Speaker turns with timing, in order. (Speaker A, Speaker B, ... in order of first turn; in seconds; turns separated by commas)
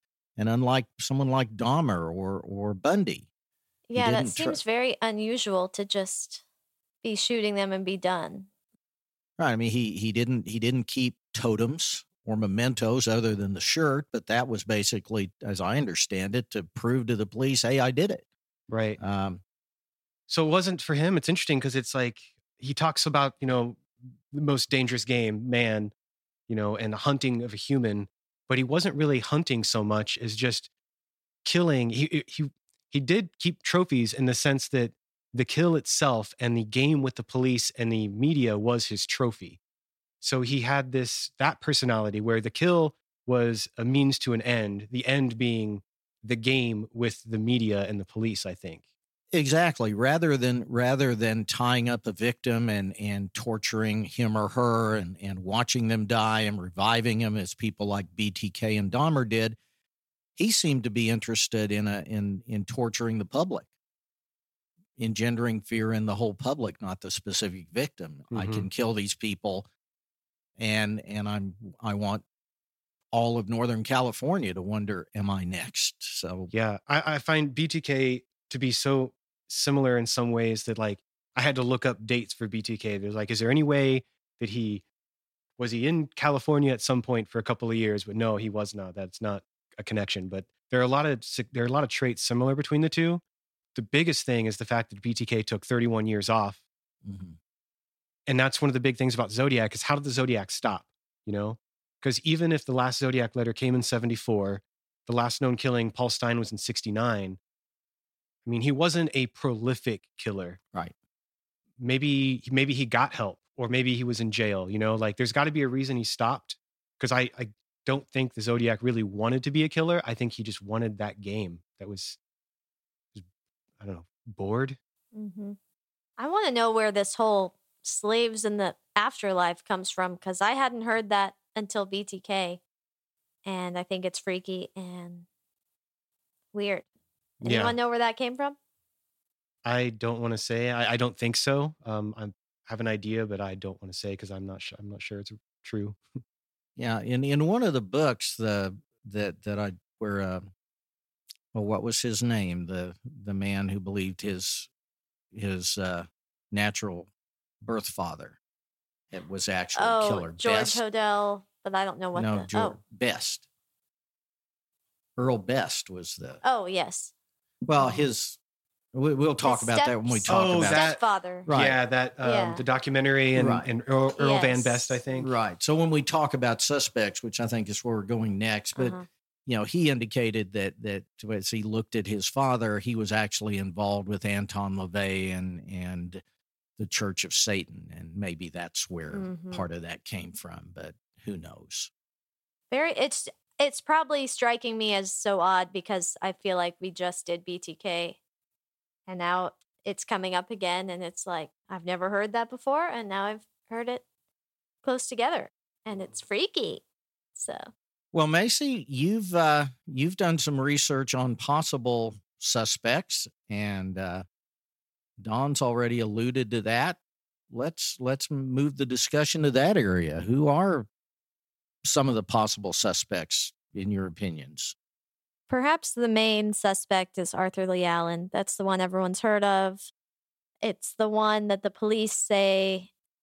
Speaker A: 0.4-3.3, Speaker B: 3.9-6.4, Speaker A: 4.0-4.6, Speaker B: 7.0-8.5, Speaker A: 9.4-18.2, Speaker C: 18.7-19.0, Speaker A: 19.0-19.4, Speaker C: 20.3-25.9, Speaker C: 26.5-30.7, Speaker C: 31.4-39.6, Speaker C: 40.2-48.8, Speaker A: 49.3-59.6, Speaker A: 60.4-63.7, Speaker A: 65.0-69.7, Speaker C: 68.3-68.7, Speaker A: 70.6-72.2, Speaker A: 73.1-76.5, Speaker C: 76.5-84.8, Speaker C: 85.6-93.2, Speaker C: 93.7-96.6, Speaker A: 97.0-97.4, Speaker C: 98.3-107.4, Speaker C: 108.5-110.6, Speaker C: 111.8-122.2, Speaker C: 123.8-124.8, Speaker B: 125.1-125.6, Speaker B: 126.2-132.6, Speaker B: 133.4-135.3, Speaker B: 136.5-136.8, Speaker B: 137.4-138.6, Speaker C: 137.4-137.8, Speaker C: 139.6-146.0, Speaker A: 146.8-150.5, Speaker A: 151.5-154.7, Speaker A: 155.3-157.1, Speaker A: 157.6-158.4, Speaker A: 159.1-160.8, Speaker B: 159.7-162.8, Speaker A: 162.1-163.4, Speaker A: 165.2-166.4, Speaker B: 166.4-167.1, Speaker A: 167.7-168.4, Speaker A: 168.9-170.9, Speaker B: 169.4-171.5, Speaker C: 170.3-175.3, Speaker A: 171.4-171.8, Speaker B: 172.2-172.6, Speaker A: 173.3-173.7, Speaker B: 174.2-175.0, Speaker A: 175.1-186.2, Speaker B: 178.8-179.1, Speaker A: 186.8-191.9, Speaker B: 189.1-189.6, Speaker B: 192.7-198.2, Speaker B: 199.1-204.0, Speaker B: 204.8-206.8, Speaker B: 207.3-207.7, Speaker A: 208.1-214.2, Speaker A: 215.2-217.0, Speaker A: 217.5-220.9, Speaker A: 221.8-224.7, Speaker B: 225.5-229.9, Speaker B: 230.6-232.9